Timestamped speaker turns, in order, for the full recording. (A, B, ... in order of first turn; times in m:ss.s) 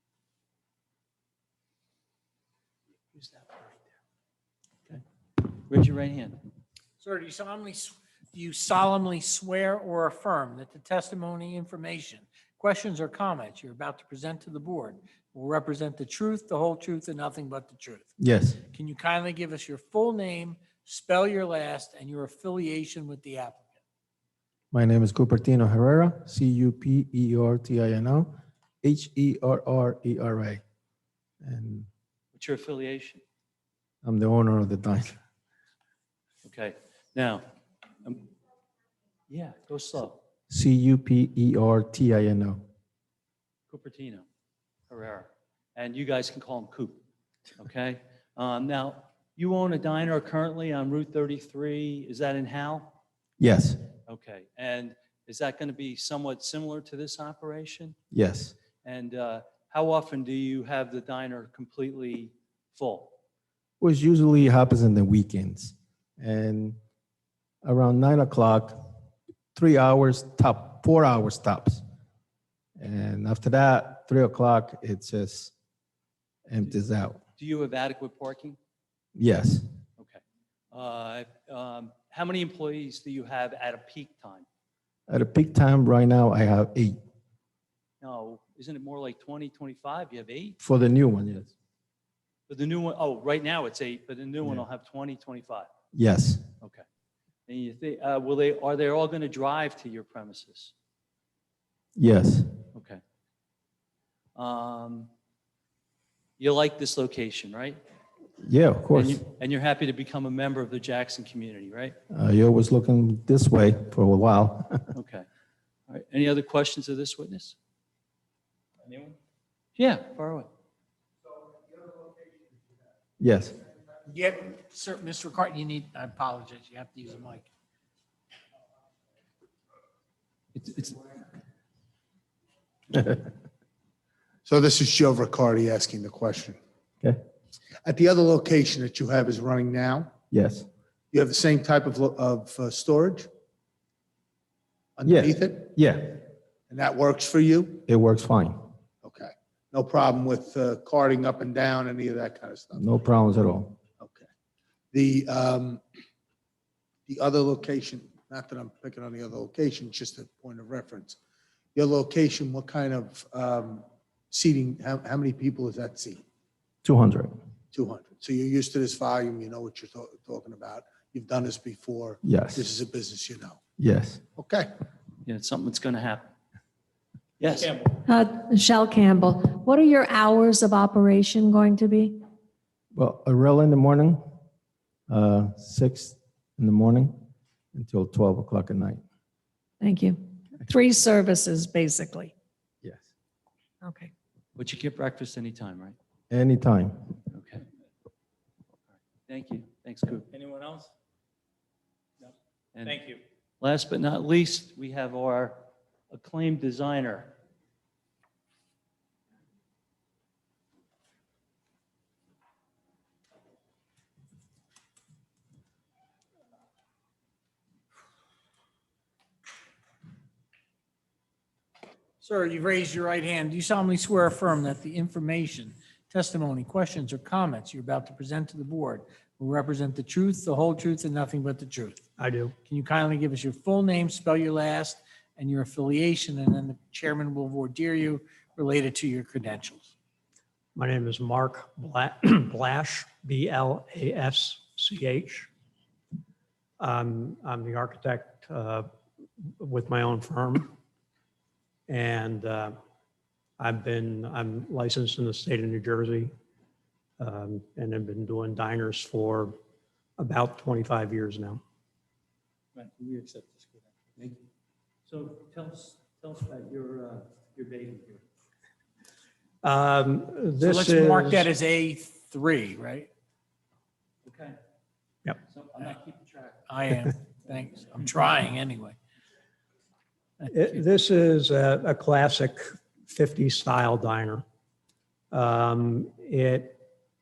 0:04.9-0:06.4 A
0:07.0-0:18.1 B
0:18.2-0:18.6 C
0:18.7-0:23.8 B
0:24.7-0:28.3 C
0:28.8-0:30.6 C
0:31.4-0:31.9 C
0:32.3-0:33.2 A
0:34.0-0:35.2 C
0:36.4-0:37.4 A
0:38.0-0:38.3 A
0:39.3-0:40.2 A
0:40.5-0:42.6 C
0:43.7-0:44.2 A
0:44.9-0:47.0 A
0:47.6-0:52.9 A
0:53.4-0:53.8 C
0:54.1-0:58.0 A
0:58.1-0:58.5 C
0:58.8-1:03.1 A
1:03.8-1:06.8 C
1:07.6-1:08.8 C
1:09.5-1:11.8 C
1:12.8-1:15.5 C
1:16.5-1:17.2 C
1:17.4-1:18.6 A
1:19.1-1:19.6 C
1:20.7-1:24.4 A
1:25.1-1:27.0 C
1:28.0-1:30.6 A
1:30.6-1:31.5 C
1:32.5-1:35.7 A
1:35.9-1:36.4 C
1:37.5-1:40.7 A
1:42.0-1:42.5 C
1:42.7-1:43.0 A
1:44.4-1:45.1 A
1:46.4-1:47.8 A
1:48.4-1:49.2 C
1:48.9-1:52.0 A
1:52.1-1:54.8 C
1:54.9-1:55.2 A
1:55.9-1:57.6 A
1:58.8-1:59.1 D
1:59.8-2:00.5 A
2:03.2-2:03.6 C
2:04.0-2:07.5 B
2:10.5-2:11.0 A
2:14.4-2:16.6 E
2:17.8-2:20.1 E
2:20.3-2:20.7 C
2:21.1-2:23.3 E
2:25.0-2:25.7 E
2:25.0-2:26.2 C
2:26.7-2:27.8 E
2:27.9-2:28.6 C
2:29.0-2:32.8 E
2:32.8-2:33.8 C
2:34.0-2:34.2 E
2:34.9-2:35.8 E
2:37.1-2:41.2 E
2:41.7-2:46.2 E
2:46.8-2:47.3 C
2:47.7-2:53.6 E
2:52.2-2:52.6 C
2:53.8-2:54.2 C
2:54.4-2:54.7 E
2:55.2-2:56.3 A
2:57.4-2:57.8 A
2:58.0-3:02.2 F
3:02.9-3:04.2 C
3:05.1-3:07.1 C
3:07.7-3:09.0 C
3:09.8-3:12.3 F
3:12.8-3:13.1 C
3:13.8-3:14.1 F
3:14.6-3:16.0 A
3:16.3-3:17.1 C
3:17.3-3:17.6 A
3:19.3-3:20.2 A
3:20.3-3:20.8 D
3:22.7-3:23.1 A
3:22.9-3:23.1 D
3:23.6-3:27.3 A
3:42.2-3:52.0 B
3:52.2-3:52.6 G
3:52.6-3:59.9 B
4:00.8-4:05.5 G
4:06.8-4:08.9 G
4:09.6-4:10.7 G
4:11.9-4:12.8 G
4:13.6-4:16.3 G
4:17.2-4:19.6 G
4:20.2-4:21.6 G
4:22.8-4:23.6 D
4:25.1-4:28.2 A
4:29.6-4:31.5 G
4:30.6-4:33.1 B
4:34.2-4:34.6 A
4:35.5-4:36.6 A
4:36.7-4:38.9 B
4:40.4-4:44.4 G
4:45.3-4:46.8 G